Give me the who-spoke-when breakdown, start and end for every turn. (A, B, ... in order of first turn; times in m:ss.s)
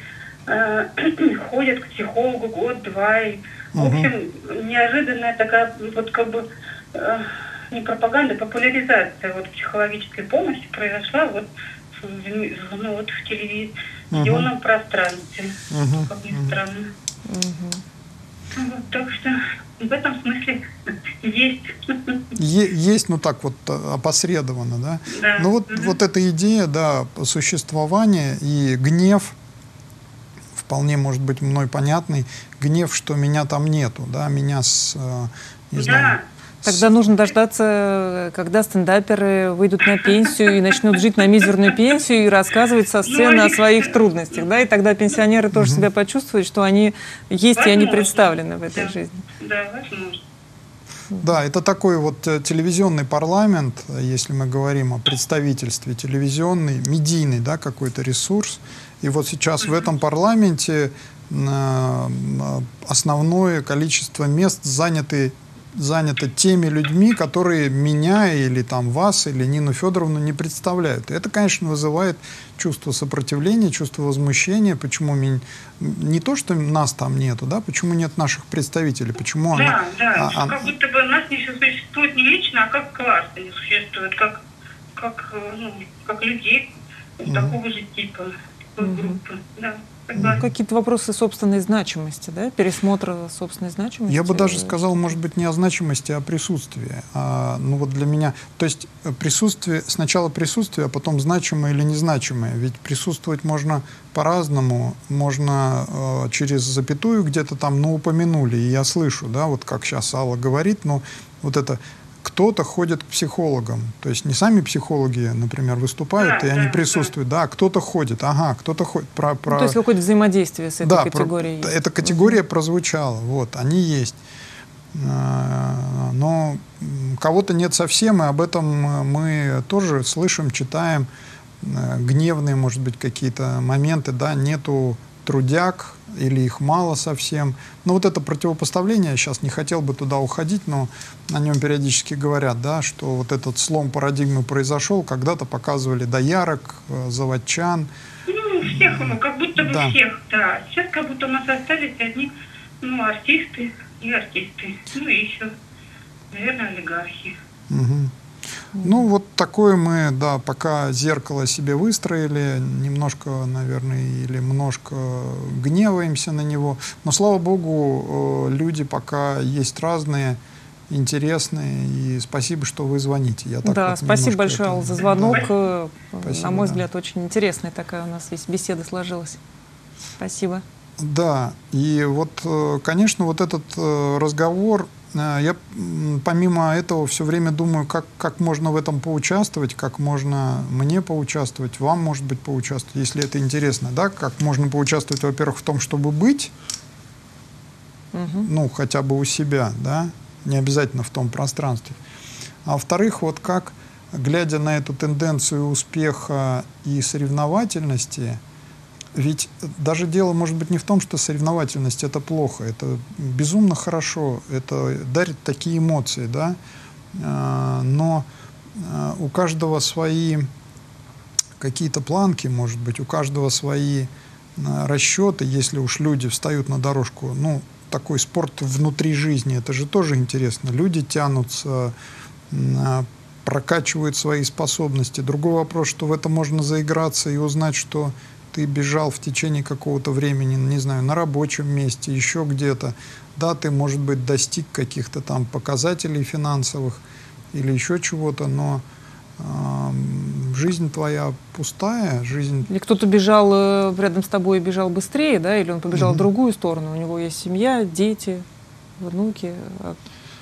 0:00.5-0:16.9 A
0:03.8-0:04.1 B
0:14.1-0:14.5 B
0:15.7-0:16.6 B
0:17.3-0:17.8 C
0:18.5-0:20.6 A
0:21.2-0:22.2 A
0:22.4-0:29.4 B
0:25.1-0:26.0 A
0:30.6-0:36.9 B
0:35.8-0:36.2 A
0:36.6-0:49.2 C
0:43.1-0:44.5 A
0:45.5-0:45.9 B
0:47.6-0:50.2 A
0:51.2-1:20.7 B
1:19.5-1:24.4 A
1:25.0-1:30.4 A
1:27.2-1:27.6 B
1:28.8-1:29.2 C
1:30.2-1:30.4 B
1:30.2-1:35.1 C
1:34.1-1:59.8 B
1:56.2-1:57.1 A
1:59.5-2:02.4 C
2:00.8-2:04.2 B
2:04.9-2:11.1 B
2:11.6-2:27.9 B
2:28.3-2:35.5 A
2:28.6-2:30.0 B
2:36.3-2:37.4 A
2:37.7-2:38.1 B
2:38.8-2:55.5 B
2:53.6-2:59.4 C
2:56.2-2:56.8 B
3:00.2-3:00.6 C
3:01.0-3:16.5 B
3:18.1-3:18.5 C
3:18.4-3:22.0 B
3:22.6-3:28.4 B
3:29.1-3:36.6 B
3:37.1-3:40.5 B
3:41.6-3:51.9 B
3:52.5-4:07.0 B
4:07.5-4:08.8 B
4:09.4-4:12.7 B
4:12.7-4:18.4 C
4:15.9-4:16.3 B
4:19.0-4:20.0 C